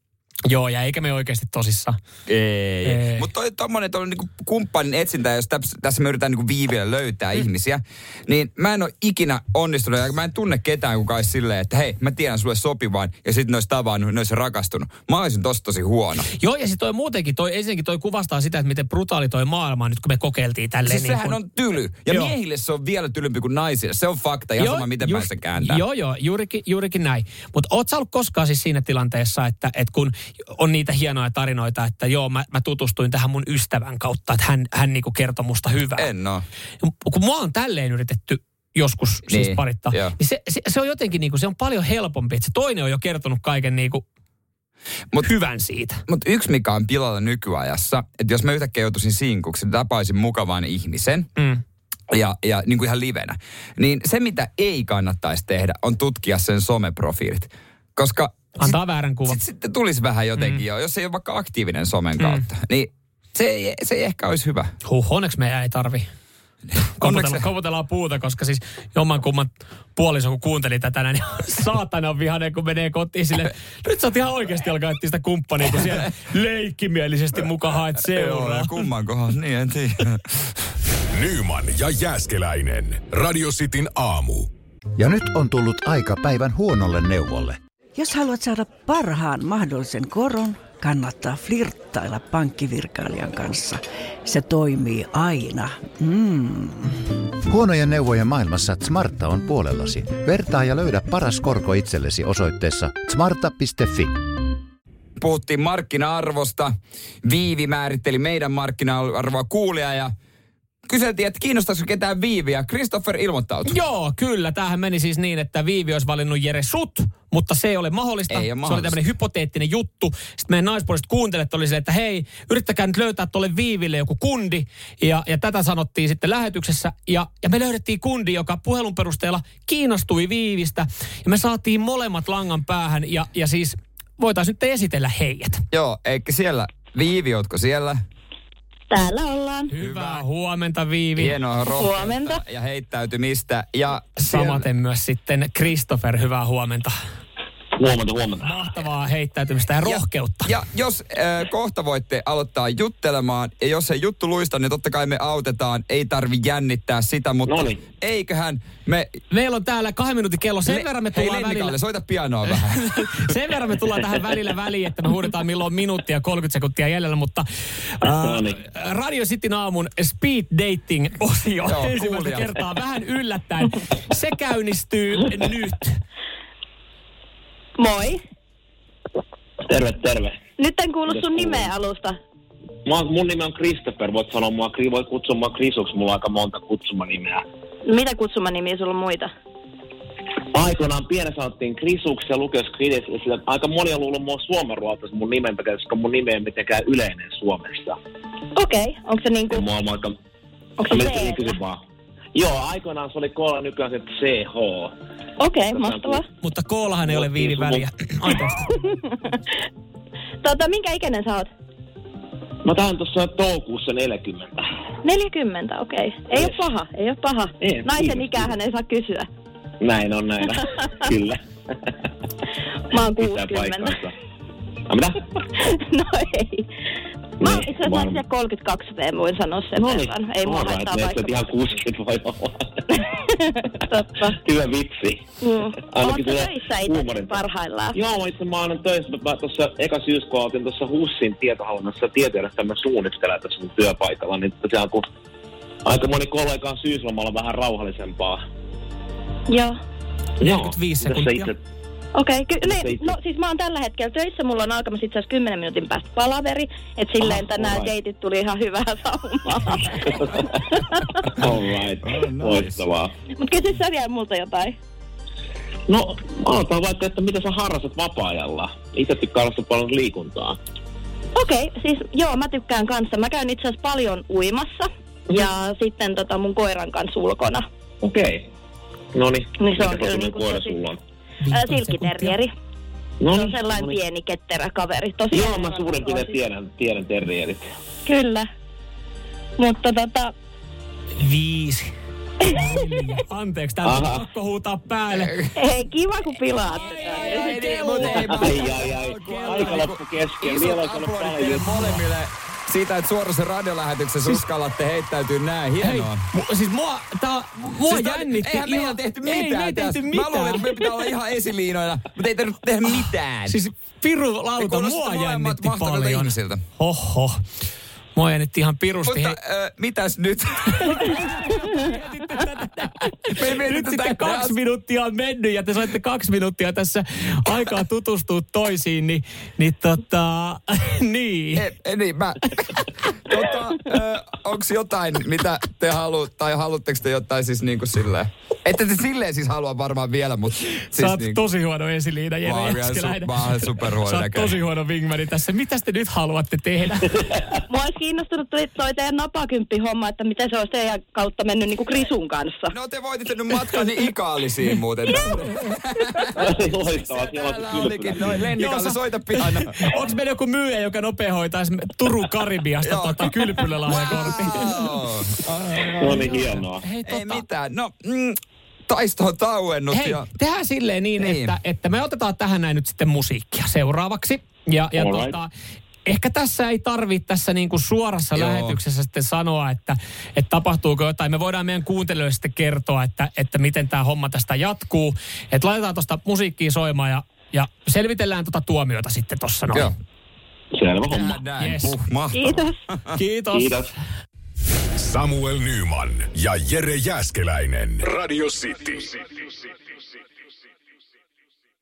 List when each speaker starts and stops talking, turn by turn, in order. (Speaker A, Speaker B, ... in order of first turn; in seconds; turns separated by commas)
Speaker A: 0.5-1.9, Speaker B: 2.3-16.3, Speaker A: 2.8-3.2, Speaker A: 16.3-21.4, Speaker B: 20.8-25.8, Speaker A: 22.1-22.3, Speaker A: 24.6-36.1, Speaker B: 36.0-36.4, Speaker A: 36.8-44.0, Speaker B: 39.3-40.1, Speaker A: 45.2-46.0, Speaker B: 46.1-51.3, Speaker B: 52.1-58.7, Speaker A: 58.6-59.4, Speaker B: 59.3-64.7, Speaker A: 64.8-66.0, Speaker A: 67.0-78.7, Speaker B: 67.0-67.4, Speaker B: 78.1-80.2, Speaker C: 81.1-84.5, Speaker D: 85.0-87.6, Speaker E: 88.0-96.9, Speaker D: 97.5-104.1, Speaker B: 105.2-106.7, Speaker B: 107.2-110.1, Speaker B: 110.9-113.7, Speaker A: 113.7-135.6, Speaker B: 118.3-119.0, Speaker B: 135.7-138.0, Speaker F: 138.9-139.7, Speaker A: 139.7-141.3, Speaker B: 139.8-140.2, Speaker B: 141.2-144.6, Speaker F: 141.7-142.4, Speaker A: 144.2-146.9, Speaker G: 147.8-148.6, Speaker A: 148.4-150.5, Speaker B: 149.8-159.1, Speaker G: 157.4-157.8, Speaker A: 159.3-161.7, Speaker B: 160.7-163.3, Speaker A: 162.5-175.9, Speaker G: 168.2-168.6, Speaker B: 171.7-172.5, Speaker F: 177.8-178.2, Speaker G: 179.7-180.4, Speaker F: 180.6-182.1, Speaker G: 181.1-181.7, Speaker G: 182.8-187.4, Speaker F: 187.8-189.3, Speaker G: 190.5-198.0, Speaker F: 198.5-199.6, Speaker G: 199.5-200.1, Speaker F: 200.8-201.5, Speaker G: 200.8-201.8, Speaker G: 202.3-204.9, Speaker F: 205.4-206.2, Speaker G: 205.7-206.2, Speaker A: 206.4-208.8, Speaker G: 207.0-207.9, Speaker F: 208.8-209.4, Speaker F: 210.4-211.5, Speaker G: 212.6-214.6, Speaker F: 215.0-219.3, Speaker G: 216.3-216.7, Speaker G: 217.6-218.6, Speaker G: 219.8-221.9, Speaker F: 222.9-223.9, Speaker G: 222.9-224.1, Speaker G: 224.9-225.3, Speaker F: 225.4-226.7, Speaker G: 227.4-228.2, Speaker F: 227.4-231.5, Speaker G: 229.8-232.7, Speaker F: 232.9-234.3, Speaker G: 234.3-235.2, Speaker F: 235.4-238.0, Speaker G: 235.8-245.1, Speaker G: 245.8-248.4, Speaker F: 249.5-249.8, Speaker A: 250.4-251.5, Speaker G: 250.4-251.6, Speaker F: 252.1-260.0, Speaker G: 252.6-253.2, Speaker G: 257.2-257.9, Speaker G: 260.1-260.8, Speaker G: 261.4-263.1, Speaker B: 262.1-262.8, Speaker F: 263.4-264.8, Speaker G: 265.9-270.6, Speaker F: 271.3-277.6, Speaker G: 278.0-278.5, Speaker G: 279.1-281.0, Speaker F: 279.6-280.8, Speaker A: 281.4-282.4, Speaker F: 281.5-282.5, Speaker G: 283.2-284.0, Speaker F: 283.3-286.3, Speaker G: 285.3-287.7, Speaker F: 288.0-288.5, Speaker F: 289.6-290.3, Speaker A: 291.2-291.9, Speaker A: 292.4-295.4, Speaker G: 293.8-294.2, Speaker B: 295.1-295.5, Speaker F: 295.5-298.1, Speaker A: 296.7-299.9, Speaker B: 297.1-306.2, Speaker G: 298.0-301.9, Speaker A: 305.8-310.7, Speaker B: 307.9-313.6, Speaker A: 313.5-317.4, Speaker B: 314.6-316.6, Speaker A: 318.1-319.4, Speaker B: 319.0-321.1, Speaker A: 320.9-331.6, Speaker B: 323.3-324.5, Speaker B: 331.6-341.4, Speaker A: 340.9-347.1, Speaker B: 342.4-344.6, Speaker F: 347.7-352.7, Speaker B: 352.7-356.3, Speaker G: 356.4-358.4, Speaker B: 356.9-359.8, Speaker A: 358.6-364.9, Speaker B: 362.8-363.2, Speaker B: 363.9-366.4, Speaker A: 365.8-367.4, Speaker G: 366.0-366.8, Speaker B: 367.0-368.4, Speaker B: 368.9-370.2, Speaker A: 369.9-375.5, Speaker B: 371.2-371.5, Speaker G: 374.9-375.4, Speaker A: 376.0-389.9, Speaker B: 378.3-378.8, Speaker G: 390.7-391.4, Speaker B: 391.1-393.2, Speaker A: 391.6-392.0, Speaker F: 392.3-392.7, Speaker A: 393.1-393.8, Speaker G: 393.5-393.9, Speaker C: 395.0-399.2